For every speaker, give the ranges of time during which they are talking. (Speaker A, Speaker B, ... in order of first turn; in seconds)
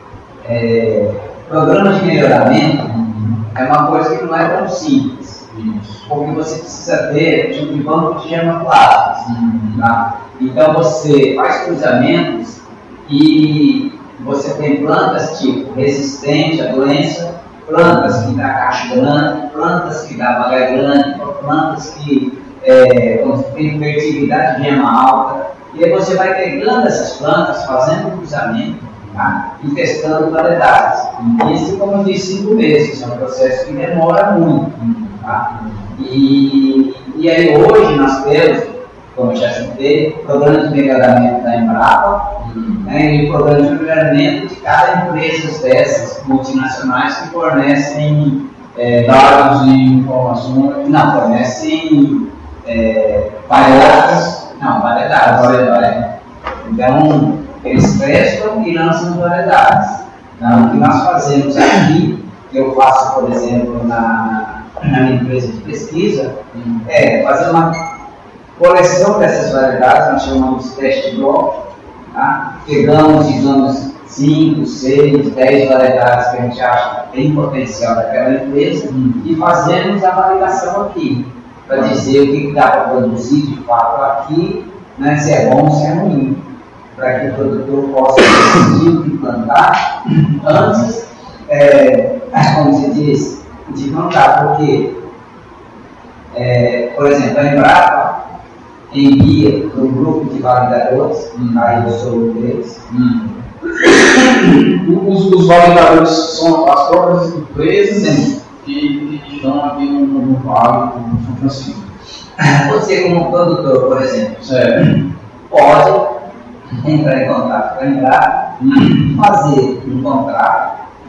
Speaker A: 0.4-2.8, 3.5-5.4, 6.1-9.2, 9.8-35.4, 35.9-42.3, 42.8-49.4, 50.8-56.0, 56.6-67.8, 68.6-71.5, 72.1-86.4, 86.9-94.9, 96.3-98.2, 98.9-102.8, 103.8-104.7, 107.9-108.3, 112.4-115.0, 115.5-116.1, 116.7-120.7
Speaker B: 2.8-3.4, 5.5-6.0, 9.2-9.8, 17.8-18.2, 34.8-35.9, 42.4-42.8, 49.0-50.9, 53.5-54.4, 55.2-56.0, 60.4-61.0, 66.5-66.8, 78.9-79.3, 101.3-101.8, 102.9-103.3, 104.7-111.9, 114.4-114.9, 118.6-119.0